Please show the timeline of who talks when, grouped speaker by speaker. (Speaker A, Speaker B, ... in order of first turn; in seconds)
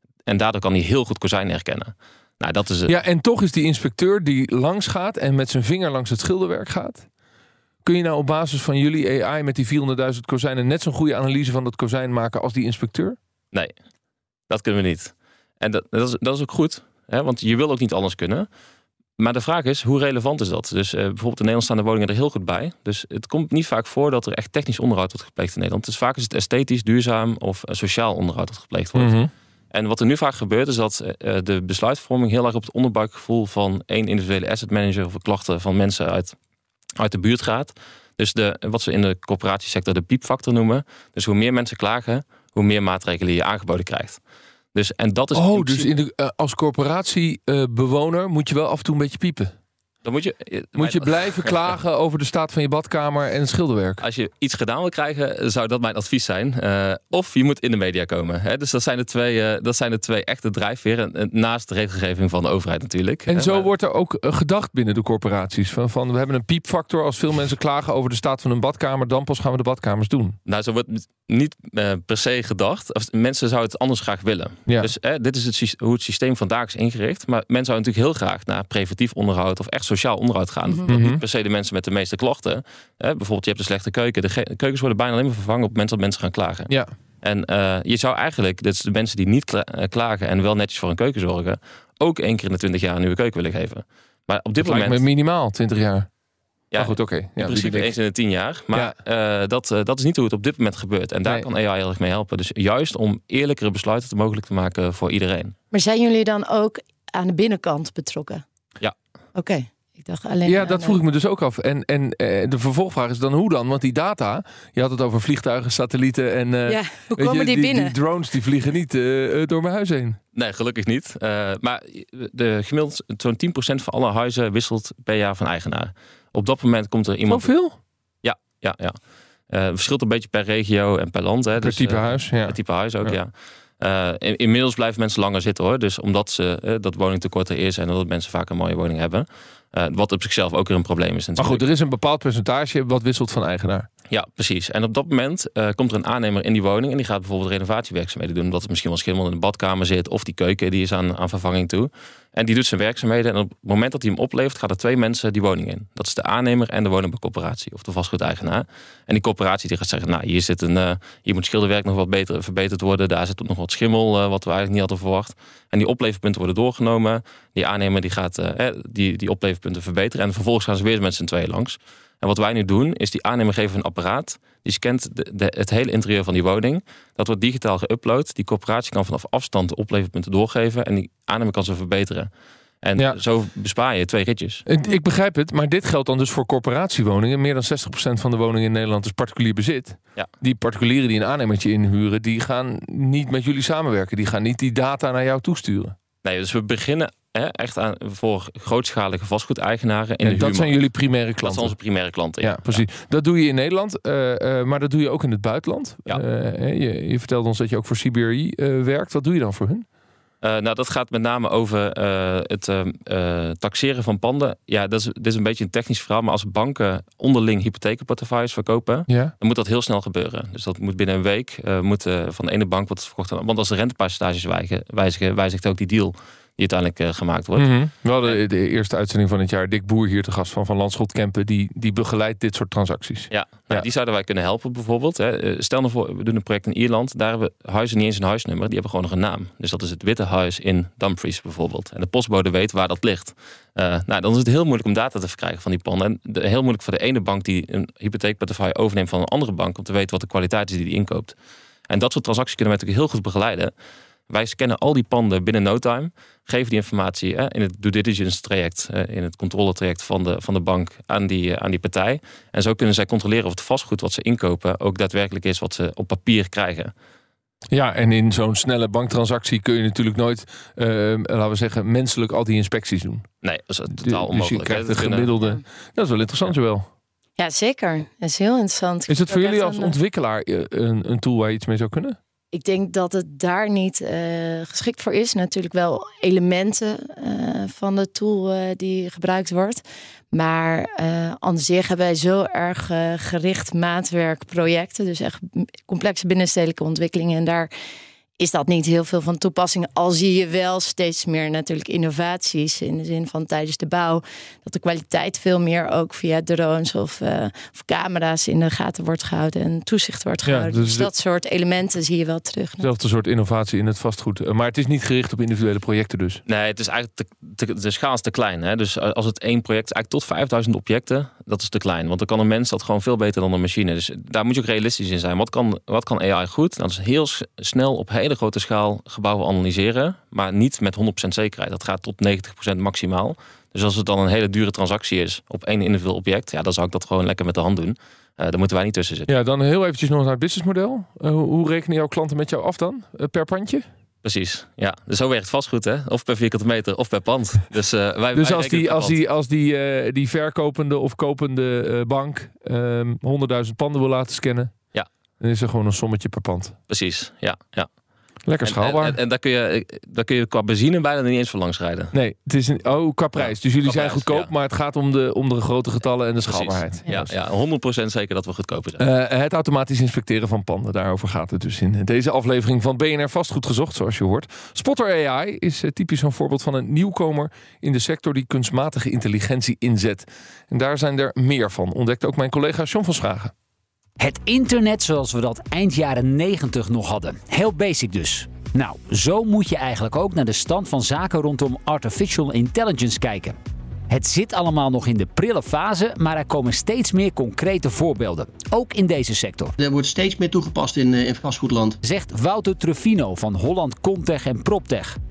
Speaker A: 0.3-2.9, 14.5-18.5, 19.2-29.2, 29.7-36.3, 37.0-44.2, 44.7-45.9, 50.0-51.5, 54.0-63.7, 70.5-86.7, 87.2-95.0, 96.7-105.5, 120.3-127.5, 128.2-129.0, 129.5-141.6, 144.1-182.3, 182.8-184.7, 196.2-200.8, 201.4-202.8, 210.4-227.7, 233.3-251.3, 251.9-253.7, 254.3-266.9, 273.4-275.4, 316.5-339.3, 344.2-349.2, 356.9-357.9, 358.6-362.1, 363.4-364.5, 366.5-369.1
Speaker B: 2.9-7.1, 7.8-13.2, 29.0-29.3, 45.4-49.5, 50.8-54.0, 63.3-70.4, 80.9-81.2, 94.6-96.1, 96.8-97.9, 110.5-120.2, 127.3-127.8, 131.6-133.2, 141.4-143.9, 184.7-195.9, 200.2-201.8, 202.4-209.9, 227.6-233.9, 267.7-273.3, 273.9-276.9, 279.1-282.2, 310.4-311.1, 312.8-316.4, 339.3-343.9, 348.4-354.7, 355.4-356.8, 358.5-359.2, 362.1-367.3, 369.0-383.5
Speaker C: 105.7-108.4, 109.3-111.0, 116.7-118.0, 277.4-279.9, 282.5-297.7, 298.4-312.9
Speaker D: 384.2-393.6, 394.1-399.7, 402.0-405.2
Speaker E: 399.8-402.0